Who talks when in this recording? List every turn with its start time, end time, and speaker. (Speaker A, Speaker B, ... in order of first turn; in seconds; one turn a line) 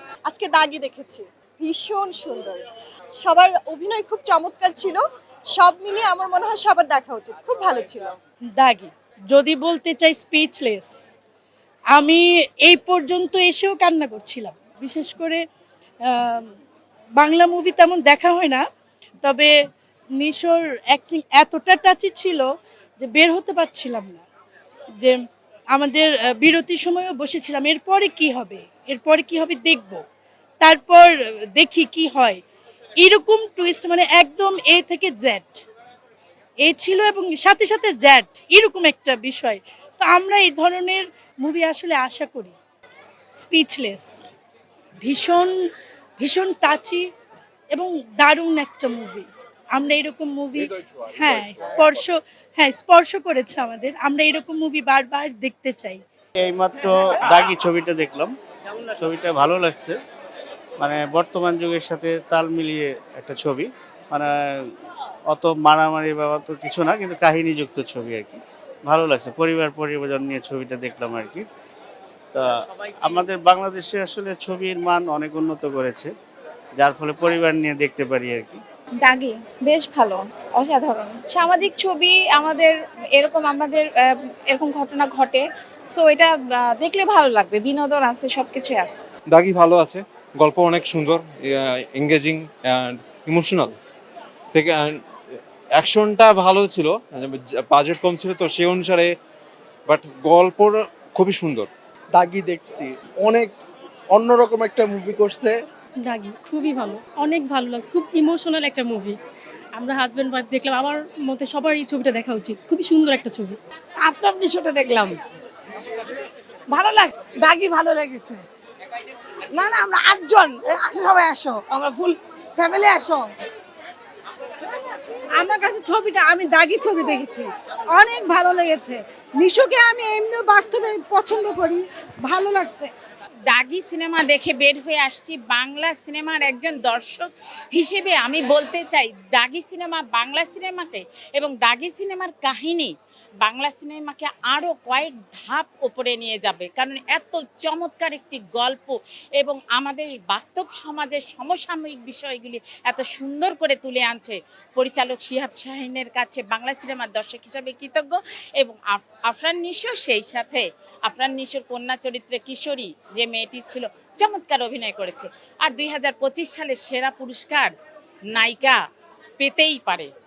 Speaker A: 0.3-2.6
Speaker A: 3.2-5.0
Speaker A: 5.5-8.1
Speaker B: 8.6-10.9
Speaker B: 11.9-15.4
Speaker B: 16.1-16.5
Speaker B: 17.1-18.6
Speaker B: 19.2-19.6
Speaker B: 20.1-24.2
Speaker B: 25.7-30.0
Speaker B: 30.6-32.4
Speaker B: 33.0-35.6
Speaker B: 36.6-42.5
Speaker B: 43.3-44.2
Speaker B: 45.0-47.0
Speaker B: 47.7-56.0
Speaker C: 56.4-58.3
Speaker C: 59.0-60.0
Speaker C: 60.8-64.7
Speaker C: 65.3-71.4
Speaker C: 73.0-76.1
Speaker C: 76.8-78.6
Speaker D: 79.0-89.0
Speaker E: 89.3-93.7
Speaker E: 94.5-94.9
Speaker E: 95.8-99.1
Speaker E: 99.9-101.7
Speaker F: 102.1-103.5
Speaker F: 104.1-105.6
Speaker G: 106.0-109.2
Speaker G: 109.8-113.5
Speaker H: 114.0-115.1
Speaker H: 116.7-118.4
Speaker H: 119.5-123.2
Speaker H: 125.4-127.5
Speaker H: 128.0-132.9
Speaker I: 133.5-142.9
Speaker I: 143.4-167.7
Speaker I: 168.3-168.8
Speaker I: 169.4-170.1